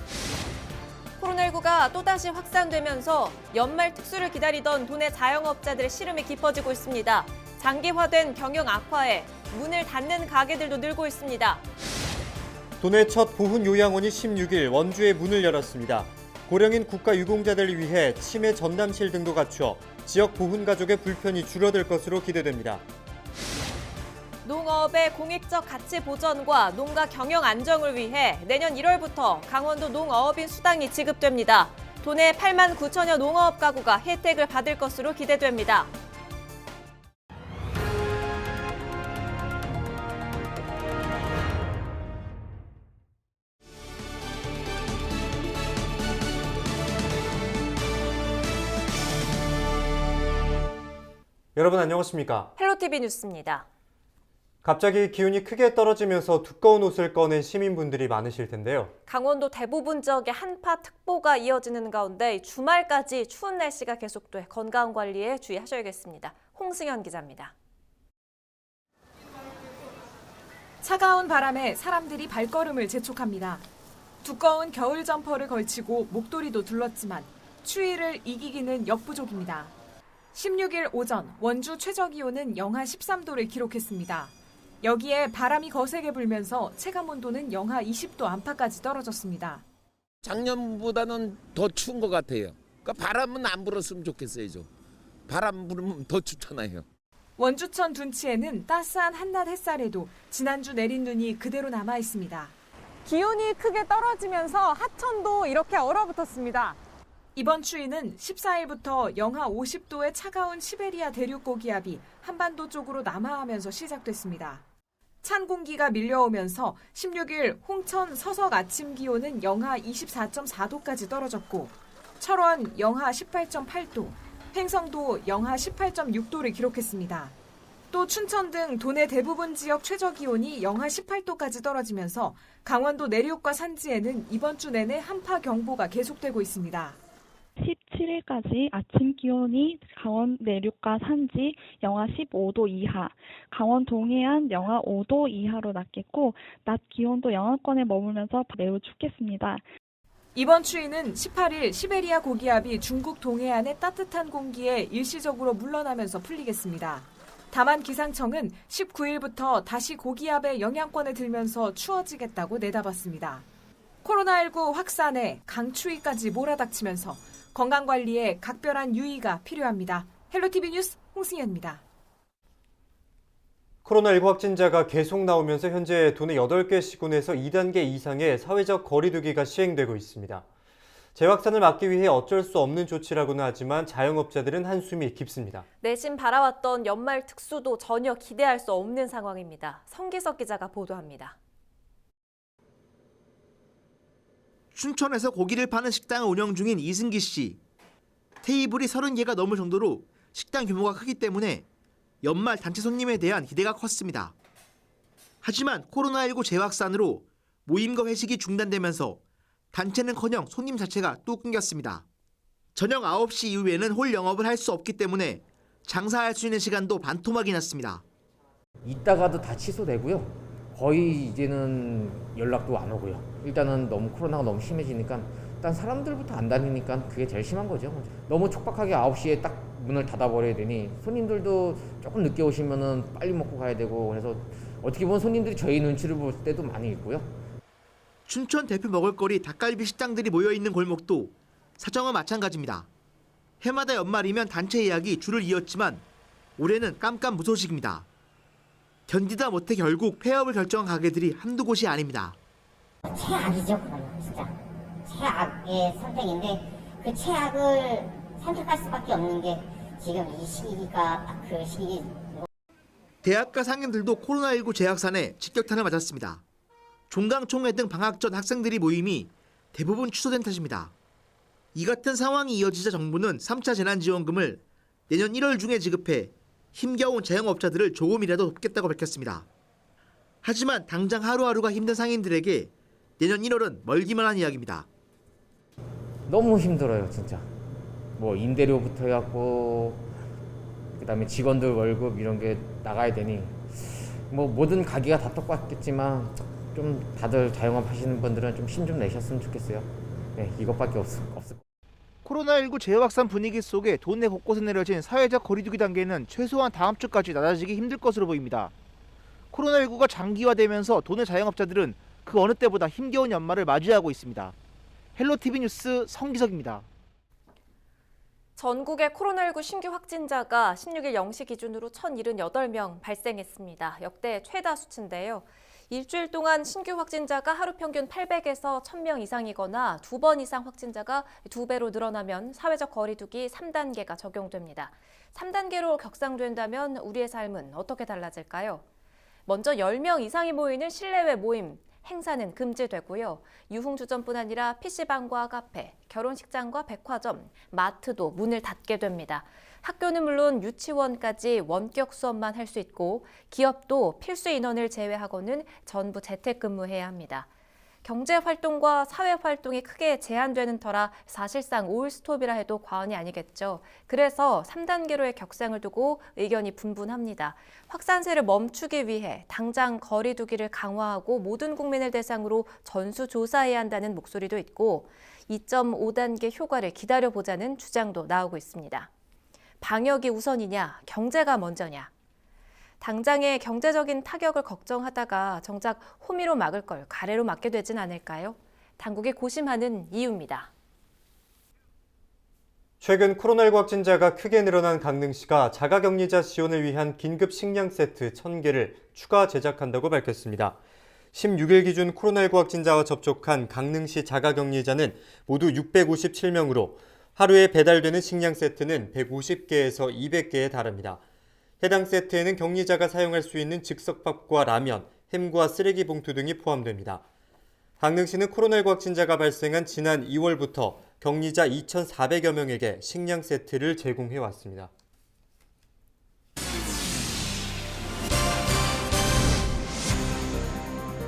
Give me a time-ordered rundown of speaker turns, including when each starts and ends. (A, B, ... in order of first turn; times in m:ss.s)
0:01.2-0:11.6 A
0:12.8-0:22.8 B
0:24.4-0:35.9 A
0:51.6-0:52.5 B
0:52.6-0:53.6 A
0:54.6-0:58.9 B
0:59.0-1:07.5 A
1:10.8-1:13.6 C
1:14.2-1:19.7 C
1:20.3-1:29.6 C
1:30.3-1:34.6 D
1:35.3-1:36.8 D
1:37.4-1:42.5 C
1:43.0-1:46.8 E
1:47.4-1:54.6 C
1:55.2-2:07.3 C
2:07.9-2:17.0 C
2:17.6-2:29.6 F
2:30.3-2:43.4 C
2:44.0-2:51.8 C
2:53.8-3:00.4 B
3:01.1-3:05.6 B
3:05.8-3:11.4 A
3:14.7-3:17.6 G
3:18.4-3:21.6 G
3:22.2-3:24.3 G
3:25.4-3:29.2 G
3:29.7-3:32.0 G
3:32.7-3:38.0 G
3:38.8-3:57.3 H
3:58.2-4:02.9 G
4:03.6-4:06.0 G
4:06.6-4:08.1 G
4:09.1-4:12.4 G
4:13.0-4:14.5 I
4:15.0-4:22.5 I
4:23.2-4:26.4 G
4:27.1-4:30.9 G
4:31.7-4:39.5 G
4:40.4-4:44.9 G
4:46.3-4:47.5 H
4:48.2-4:50.0 H
4:51.0-5:01.6 H
5:02.2-5:08.7 G
5:09.5-5:14.5 G
5:15.2-5:16.8 G
5:18.6-5:38.8 A
5:39.4-5:57.5 A
5:58.0-6:19.1 A
6:19.8-6:22.1 A
6:23.0-6:30.7 A
6:33.0-6:40.8 B
6:41.3-6:51.2 B
6:51.8-6:57.2 B
6:58.0-7:04.9 B